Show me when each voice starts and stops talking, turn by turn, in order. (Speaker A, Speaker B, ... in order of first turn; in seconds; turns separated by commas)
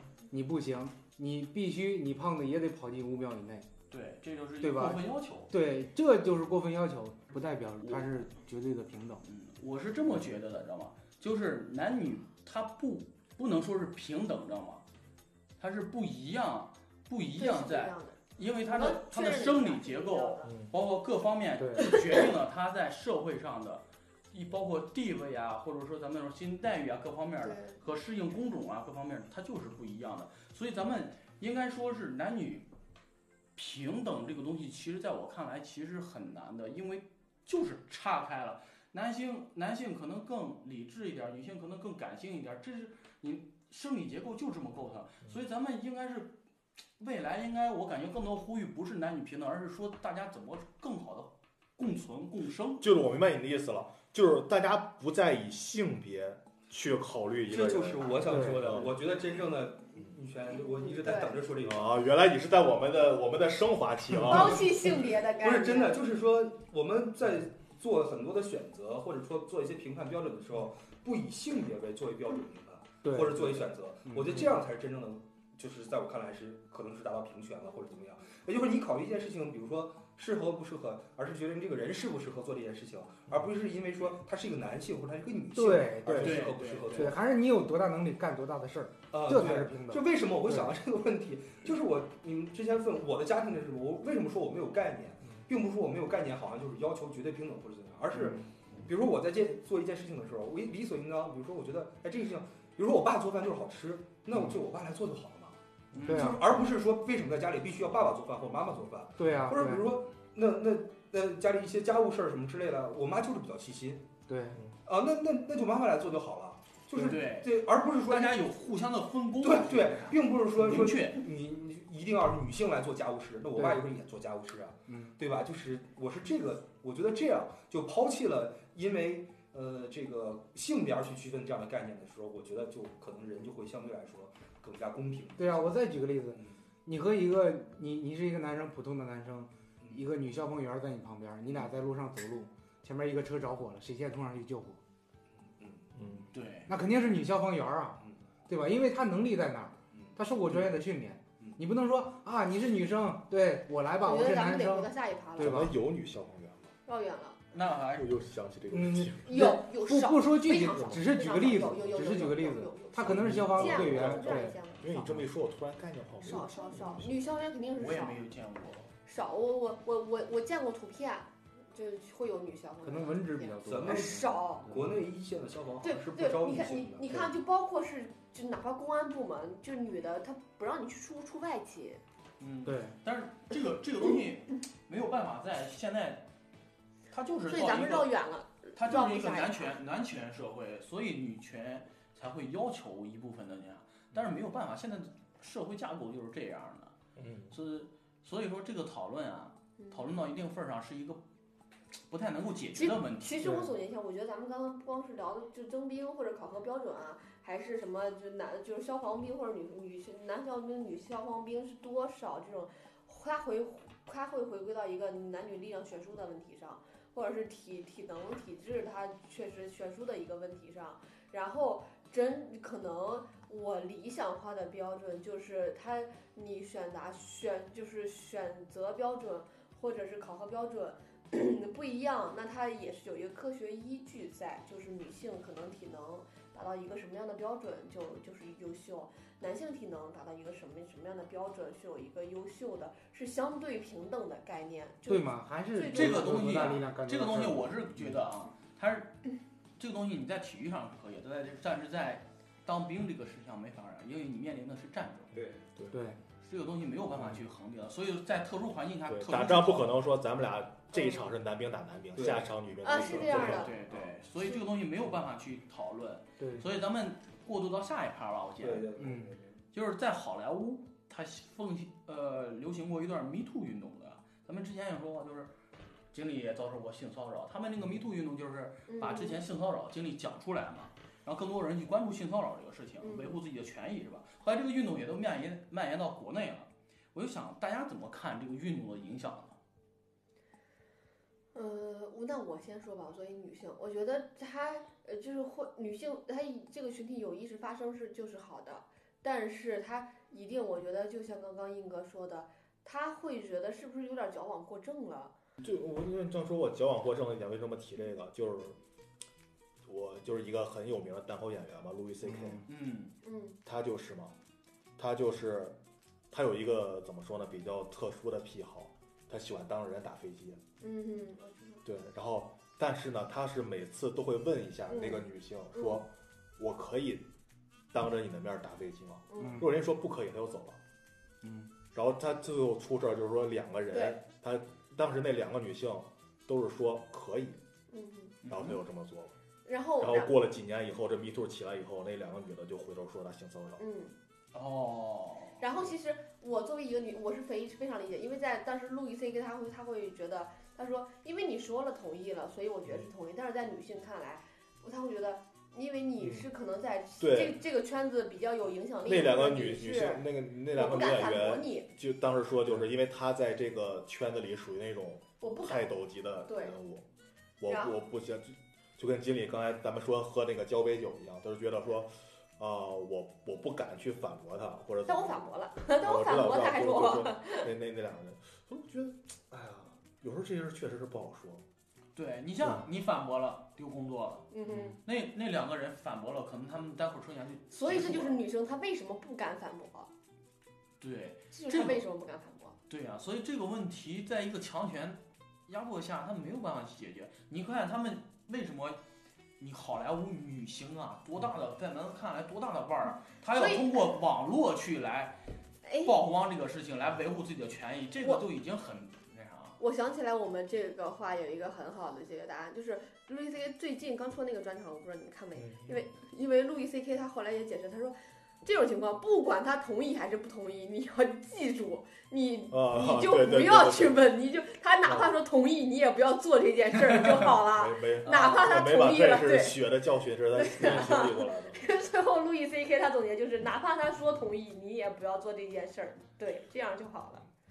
Speaker A: 0.3-3.7, Speaker B: 3.9-5.5, Speaker A: 4.6-9.2, Speaker B: 9.2-14.8, Speaker B: 15.6-32.7, Speaker C: 17.4-20.5, Speaker D: 20.5-20.7, Speaker A: 21.6-22.0, Speaker C: 21.8-22.2, Speaker C: 27.4-27.8, Speaker B: 33.6-46.4, Speaker B: 47.0-52.9, Speaker D: 52.8-59.0, Speaker E: 57.5-62.0, Speaker A: 58.3-58.8, Speaker C: 60.8-61.3, Speaker D: 61.6-64.8, Speaker C: 64.2-66.0, Speaker E: 64.3-87.2, Speaker A: 73.0-74.5, Speaker A: 85.5-90.7, Speaker B: 86.1-87.1, Speaker E: 89.1-114.1, Speaker B: 105.9-106.4, Speaker A: 106.0-106.5, Speaker A: 109.2-109.9, Speaker A: 114.3-114.6, Speaker E: 114.8-118.4, Speaker B: 117.0-121.2, Speaker E: 119.4-135.8, Speaker A: 123.6-123.8, Speaker A: 124.9-125.2, Speaker A: 135.4-144.8, Speaker E: 136.3-136.6, Speaker E: 145.4-145.9, Speaker D: 145.9-146.3, Speaker B: 146.3-146.7, Speaker A: 146.7-155.8, Speaker C: 154.0-155.7, Speaker D: 155.4-156.7, Speaker C: 156.9-157.4, Speaker B: 157.5-158.2, Speaker D: 157.9-159.4, Speaker A: 158.7-164.6, Speaker C: 159.2-165.1, Speaker D: 163.1-167.2, Speaker C: 166.2-168.2, Speaker B: 167.8-168.9, Speaker C: 169.1-174.7, Speaker A: 172.8-174.9, Speaker E: 173.6-177.3, Speaker C: 175.8-182.0, Speaker B: 182.4-186.3, Speaker A: 182.7-183.0, Speaker B: 187.1-188.1, Speaker C: 187.5-189.7, Speaker B: 188.8-196.9, Speaker D: 197.2-197.6, Speaker B: 197.5-201.2, Speaker C: 199.8-200.1, Speaker B: 202.1-203.4, Speaker C: 202.8-246.7, Speaker A: 203.4-203.7, Speaker A: 245.1-247.7, Speaker B: 245.9-249.2, Speaker B: 249.8-255.4, Speaker E: 255.3-255.6, Speaker A: 255.9-256.2, Speaker B: 256.4-260.0, Speaker D: 259.1-263.7, Speaker C: 260.9-261.2, Speaker E: 262.2-262.5, Speaker C: 262.8-263.7, Speaker E: 263.0-264.1, Speaker B: 263.4-269.0, Speaker A: 266.4-266.7, Speaker E: 268.6-269.6, Speaker A: 269.0-269.4, Speaker B: 269.7-275.5, Speaker B: 276.1-289.6, Speaker C: 278.9-279.4, Speaker C: 283.0-283.4, Speaker C: 291.5-305.3, Speaker D: 305.6-308.8, Speaker D: 309.9-312.6, Speaker B: 312.7-313.1, Speaker C: 313.2-313.6, Speaker D: 313.6-314.3, Speaker D: 315.0-315.8, Speaker D: 316.3-320.6, Speaker C: 320.8-321.8, Speaker D: 321.8-327.3, Speaker C: 324.9-326.0, Speaker D: 327.9-330.8, Speaker C: 329.3-329.6, Speaker A: 329.4-329.7, Speaker B: 331.4-331.7, Speaker D: 331.9-337.6, Speaker C: 333.9-334.2, Speaker C: 337.9-338.4, Speaker B: 338.4-338.8, Speaker D: 338.5-339.3, Speaker C: 339.6-340.4, Speaker D: 340.0-343.8, Speaker C: 343.8-344.1, Speaker B: 344.5-345.6, Speaker C: 345.6-361.9, Speaker D: 356.2-356.5, Speaker D: 357.2-357.6, Speaker D: 359.1-367.1, Speaker C: 365.4-365.9, Speaker C: 366.5-366.8, Speaker D: 367.6-381.6, Speaker C: 367.7-368.0, Speaker C: 375.1-377.7, Speaker B: 382.1-384.5, Speaker C: 384.5-385.0, Speaker B: 385.0-388.4, Speaker C: 387.7-390.1, Speaker B: 391.0-392.0, Speaker C: 391.5-392.8, Speaker B: 392.9-399.0, Speaker B: 399.6-405.4, Speaker C: 403.5-404.2, Speaker C: 405.8-406.1, Speaker B: 406.0-409.8, Speaker C: 409.8-429.8, Speaker D: 415.6-416.0, Speaker D: 422.7-424.2, Speaker D: 425.1-425.3, Speaker D: 427.7-431.8, Speaker C: 430.5-437.5